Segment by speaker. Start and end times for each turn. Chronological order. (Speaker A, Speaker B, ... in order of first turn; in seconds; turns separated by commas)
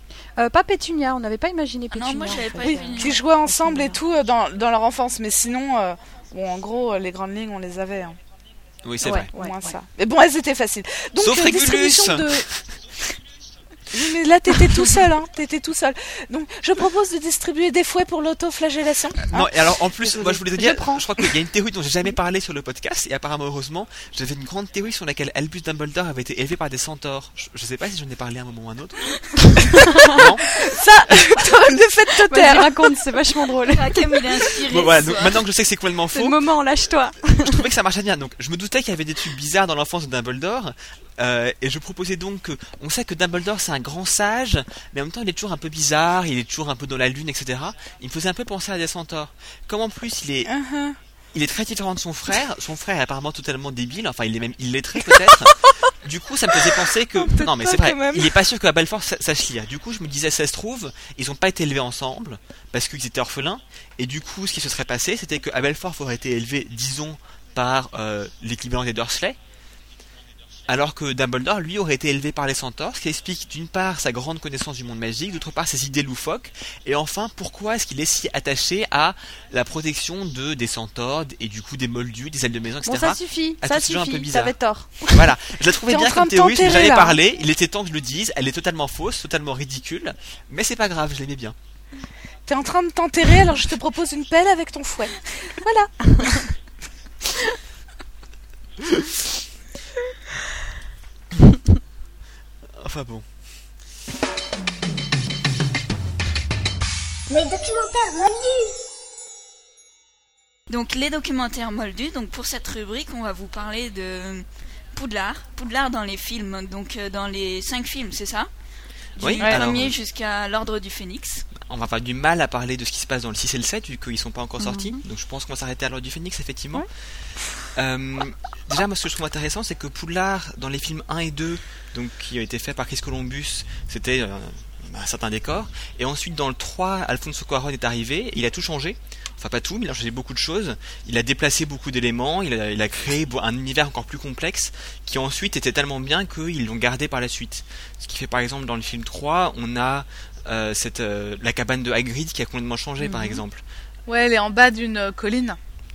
Speaker A: 0.4-4.0, Speaker B: 1.9-3.2, Speaker C: 2.6-8.2, Speaker D: 8.8-9.3, Speaker A: 9.0-9.7, Speaker C: 9.0-12.5, Speaker D: 11.2-12.4, Speaker C: 13.9-19.3, Speaker D: 19.3-30.5, Speaker A: 20.0-21.0, Speaker A: 29.7-30.2, Speaker C: 30.4-33.0, Speaker A: 32.2-34.6, Speaker B: 33.7-35.4, Speaker D: 34.6-36.4, Speaker A: 36.1-37.7, Speaker D: 37.4-50.5, Speaker C: 50.4-51.0, Speaker D: 51.3-69.4, Speaker C: 57.2-58.4, Speaker D: 70.7-84.5, Speaker A: 82.8-85.2, Speaker D: 85.1-91.5, Speaker C: 85.9-87.2, Speaker C: 92.5-96.4, Speaker D: 102.7-103.2, Speaker B: 110.7-118.5, Speaker D: 119.2-119.9, Speaker B: 119.2-121.5, Speaker D: 121.6-126.9, Speaker A: 124.6-125.0, Speaker D: 127.7-153.6, Speaker A: 153.0-153.4, Speaker C: 154.1-155.6